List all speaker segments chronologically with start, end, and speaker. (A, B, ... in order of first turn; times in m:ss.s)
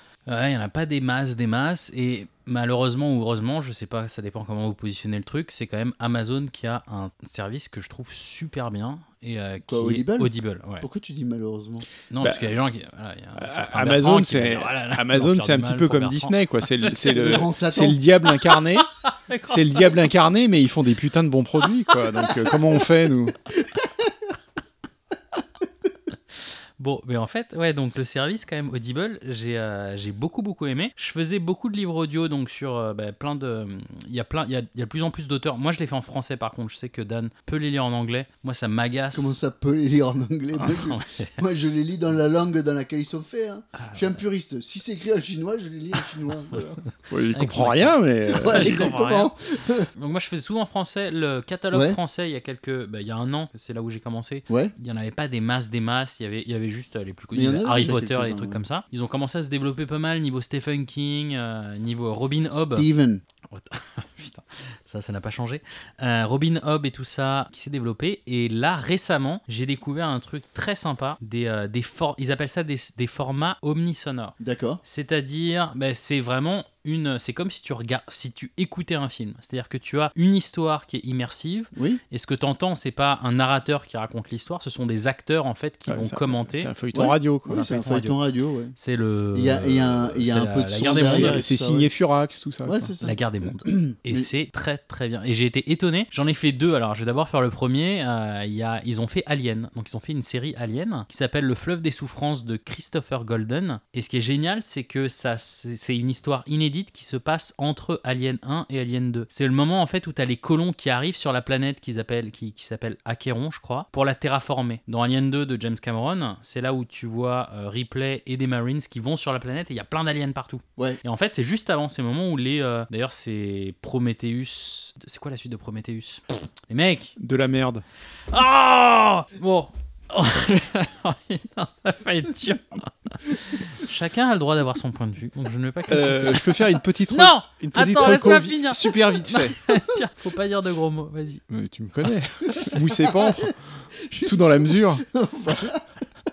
0:00.3-0:10.8 A
0:09.7-0:11.9 B
0:12.1-0:17.5 A
0:12.2-0:12.6 C
0:13.4-0:18.9 C
0:17.0-0:18.0 B
0:19.0-0:19.9 A
0:19.5-0:23.4 C
0:26.8-0:39.4 A
0:39.1-0:46.8 B
0:40.6-0:41.3 A
0:43.8-0:44.2 A
0:47.1-0:48.9 C
0:47.3-0:49.3 A
0:48.3-0:49.9 B
0:50.0-1:02.9 A
0:51.7-0:52.0 B
0:54.5-0:54.7 B
0:57.3-0:58.6 B
1:02.5-1:03.2 B
1:03.5-1:26.7 A
1:14.4-1:14.8 B
1:21.7-1:22.0 B
1:25.9-1:27.6 C
1:27.0-1:28.8 B
1:27.5-1:28.2 A
1:28.8-1:31.4 A
1:29.3-1:31.9 B
1:30.8-1:32.9 C
1:32.6-1:34.3 B
1:33.0-2:07.2 A
2:07.2-2:07.8 C
2:08.3-2:21.4 A
2:15.9-2:19.6 C
2:21.5-2:25.0 C
2:22.6-2:25.9 B